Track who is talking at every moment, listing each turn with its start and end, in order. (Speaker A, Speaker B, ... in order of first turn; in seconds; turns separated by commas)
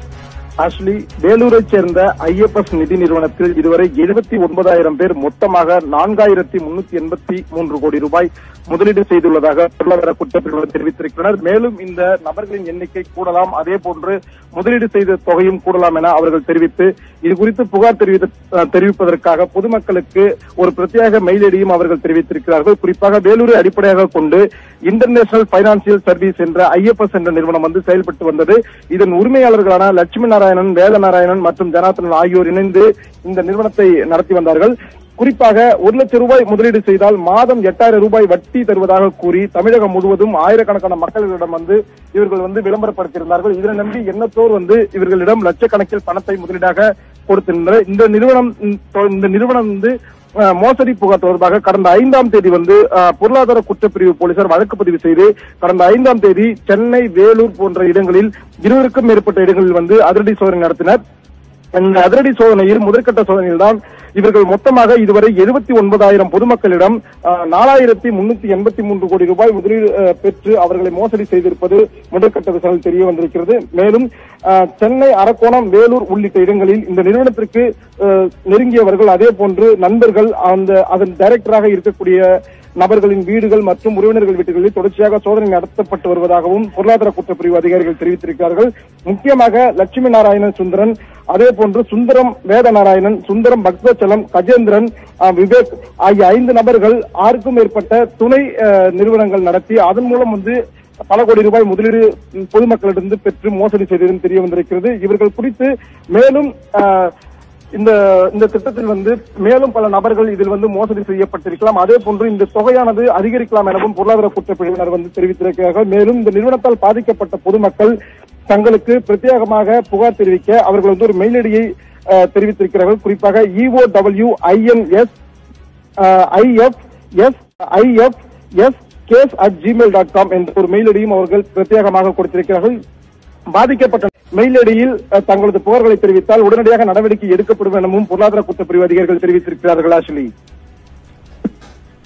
Speaker A: 0.6-61.0, Speaker A: 61.7-82.3, Speaker A: 82.8-100.6, Speaker A: 101.1-107.1, Speaker A: 107.7-118.0, Speaker A: 118.5-125.1, Speaker A: 126.0-132.8, Speaker A: 133.5-140.3